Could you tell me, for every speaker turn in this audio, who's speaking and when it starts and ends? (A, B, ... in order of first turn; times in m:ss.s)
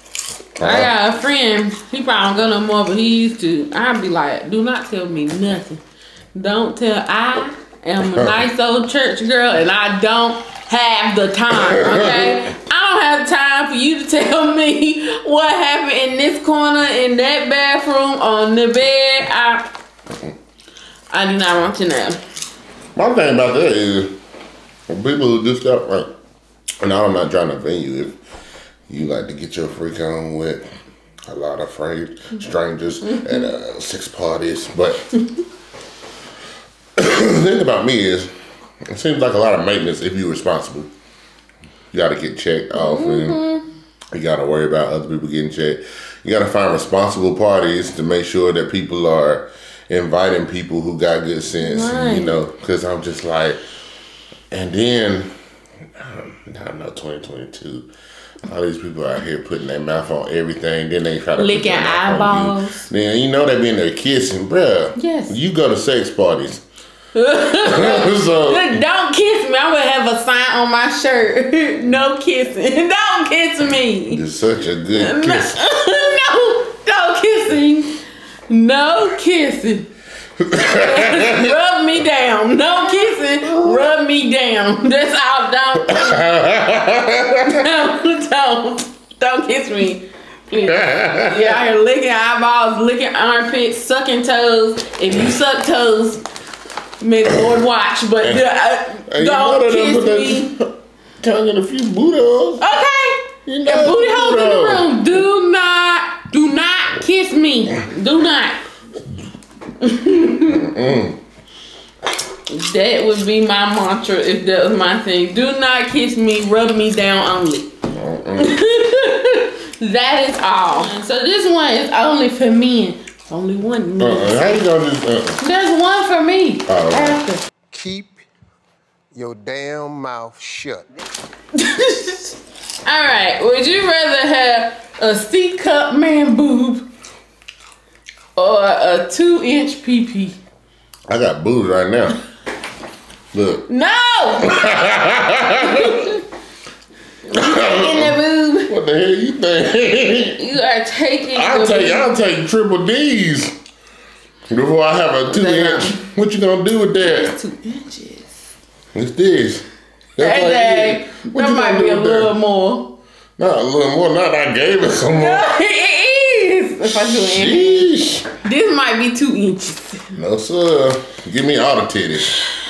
0:00.6-0:00.9 A
0:00.6-0:05.8 B
0:06.4-0:19.7 B
0:11.6-0:12.4 A
0:21.1-0:22.2 B
0:23.0-0:24.2 A
0:24.9-0:26.1 A
0:26.8-0:28.2 A
0:28.9-0:30.6 A
0:31.3-0:35.1 A
0:33.0-0:33.4 B
0:37.0-0:38.3 A
0:38.8-0:40.9 A
0:41.9-0:43.4 A
0:42.7-0:43.6 B
0:44.1-0:53.6 A
0:51.6-0:52.4 B
0:54.5-0:55.3 A
0:56.0-0:57.9 A
0:58.4-1:06.6 A
1:01.4-1:02.8 B
1:05.0-1:05.4 B
1:07.2-1:14.2 B
1:07.5-1:08.8 A
1:14.1-1:15.6 A
1:15.0-1:18.0 B
1:18.5-1:19.9 B
1:20.4-1:21.6 A
1:20.5-1:26.2 B
1:23.4-1:23.9 A
1:25.9-1:27.6 A
1:27.4-1:36.2 B
1:30.7-1:31.5 A
1:37.0-1:40.5 B
1:39.1-1:42.6 A
1:42.6-1:48.6 B
1:43.5-1:44.9 A
1:49.8-1:50.6 B
1:50.5-1:51.2 A
1:52.5-1:57.7 B
1:57.9-1:58.6 A
1:58.4-2:04.6 B
2:04.0-2:05.4 A
2:05.4-2:07.4 B
2:06.7-2:07.2 A
2:07.7-2:08.3 C
2:09.1-2:10.9 C
2:11.6-2:16.9 B
2:18.4-2:20.4 B
2:21.1-2:22.2 A
2:23.3-2:23.7 A
2:23.7-2:24.9 B
2:24.4-2:26.1 A
2:25.5-2:26.2 B
2:27.3-2:28.7 B
2:27.3-2:30.4 A
2:30.4-2:32.1 B
2:31.3-2:33.6 A
2:34.5-2:37.4 A
2:35.3-2:36.0 B
2:37.0-2:38.4 B
2:38.9-2:39.6 A
2:40.2-2:42.4 A
2:40.2-2:43.0 B
2:43.4-2:45.5 A
2:45.2-2:50.1 B
2:46.8-2:48.3 A
2:50.2-2:52.4 A